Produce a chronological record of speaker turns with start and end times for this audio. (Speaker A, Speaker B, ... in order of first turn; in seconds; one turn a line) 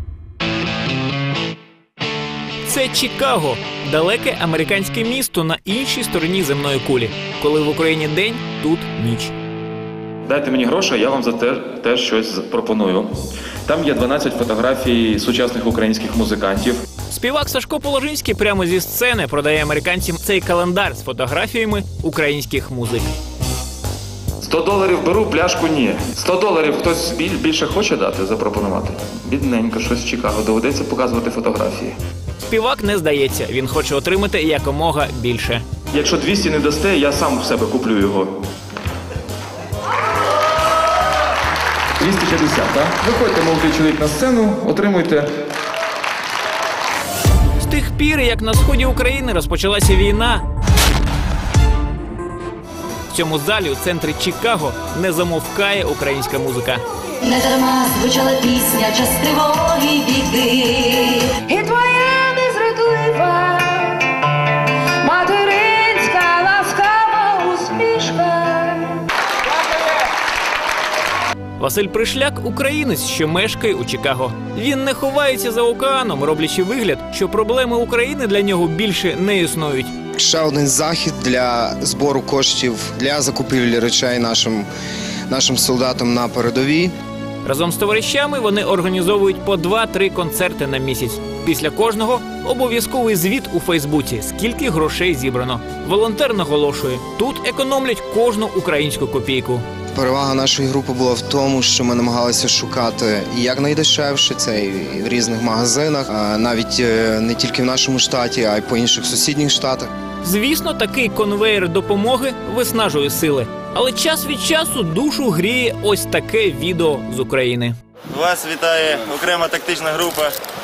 Speaker A: 2.6-9.3
Speaker B: 10.3-13.1
Speaker B: 13.7-16.8
Speaker A: 17.1-23.1
Speaker B: 24.4-32.0
Speaker A: 32.5-35.6
Speaker B: 35.9-38.3
Speaker B: 42.0-45.3
Speaker A: 47.6-50.4
Speaker A: 53.1-56.8
Speaker C: 57.2-61.4
Speaker D: 61.5-64.0
Speaker D: 65.0-69.0
Speaker A: 71.6-79.9
Speaker E: 80.2-84.7
Speaker E: 85.3-86.9
Speaker A: 87.5-99.7
Speaker E: 99.9-109.9
Speaker A: 110.2-117.8
Speaker F: 118.1-120.3